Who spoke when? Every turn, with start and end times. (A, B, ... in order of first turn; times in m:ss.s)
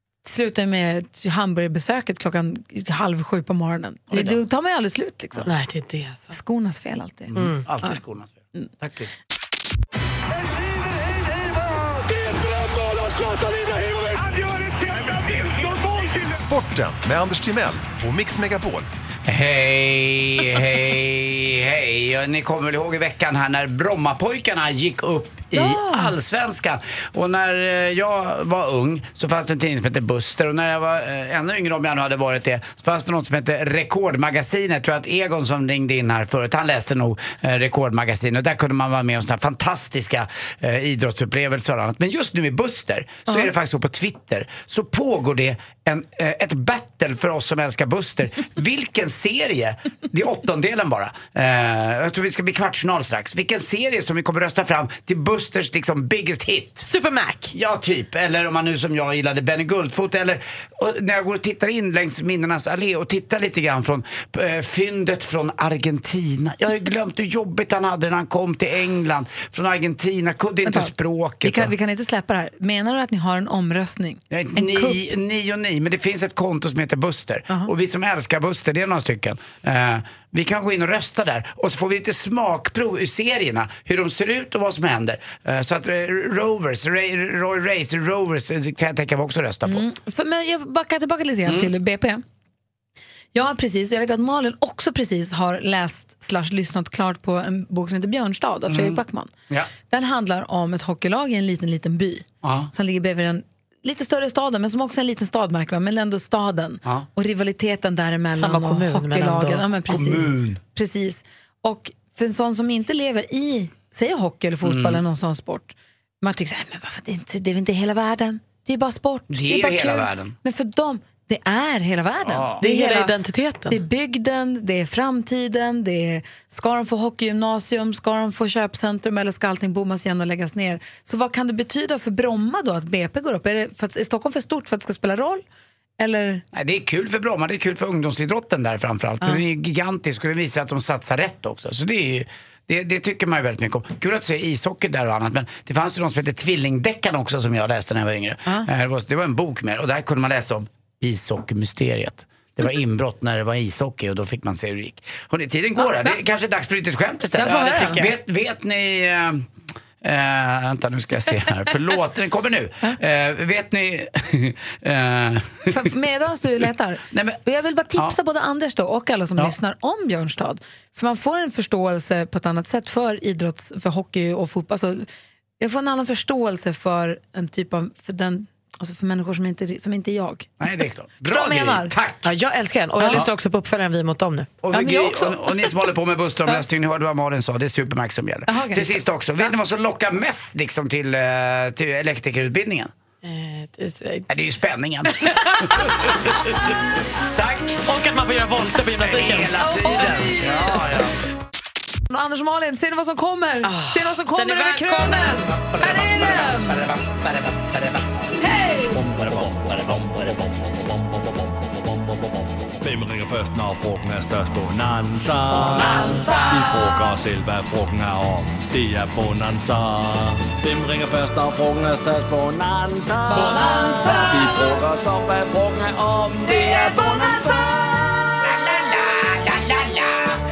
0:00.2-0:05.5 A
0:04.1-0:04.4 B
0:05.4-0:06.4 C
0:06.3-0:08.0 A
0:07.3-0:09.1 B
0:07.4-0:07.6 C
0:16.3-0:18.9 D
0:19.2-0:56.8 B
0:25.5-0:26.1 A
0:56.8-0:57.5 C
0:57.5-1:11.7 B
1:10.6-1:10.9 A
1:11.4-1:15.0 A
1:14.3-1:29.9 B
1:29.6-1:32.2 A
1:31.4-1:31.7 B
1:33.3-1:39.3 A
1:38.7-1:39.7 B
1:39.9-2:03.1 A
1:42.4-1:42.7 B
1:48.3-1:49.7 C
1:49.9-1:50.6 B
1:54.6-1:55.0 B
1:59.3-2:00.4 B
2:02.2-2:02.6 B
2:02.6-2:03.8 C
2:03.7-2:15.4 A
2:16.0-2:16.4 A
2:16.5-2:39.5 B
2:37.4-2:38.1 A
2:40.0-2:45.7 B
2:45.7-2:55.0 A
2:47.1-2:47.4 B
2:55.6-3:00.5 A
3:00.6-3:02.3 B
3:01.2-3:01.9 A
3:02.2-3:04.5 C
3:04.6-3:12.9 B
3:04.7-3:05.7 A
3:08.5-3:09.0 A
3:13.2-3:14.3 C
3:14.3-3:15.1 B
3:15.2-3:16.4 C
3:17.2-3:17.8 B
3:17.8-3:20.0 C
3:19.0-3:21.1 B
3:19.6-3:20.8 A
3:22.1-3:26.8 A
3:23.6-3:25.5 C
3:25.5-3:28.0 B
3:28.4-3:29.0 A
3:28.9-3:30.2 B
3:29.1-3:29.6 E
3:32.8-3:48.3 E
3:35.7-3:36.9 A
3:35.8-3:36.4 B
3:43.3-3:44.8 A
3:46.4-3:47.8 A
3:48.4-3:50.4 B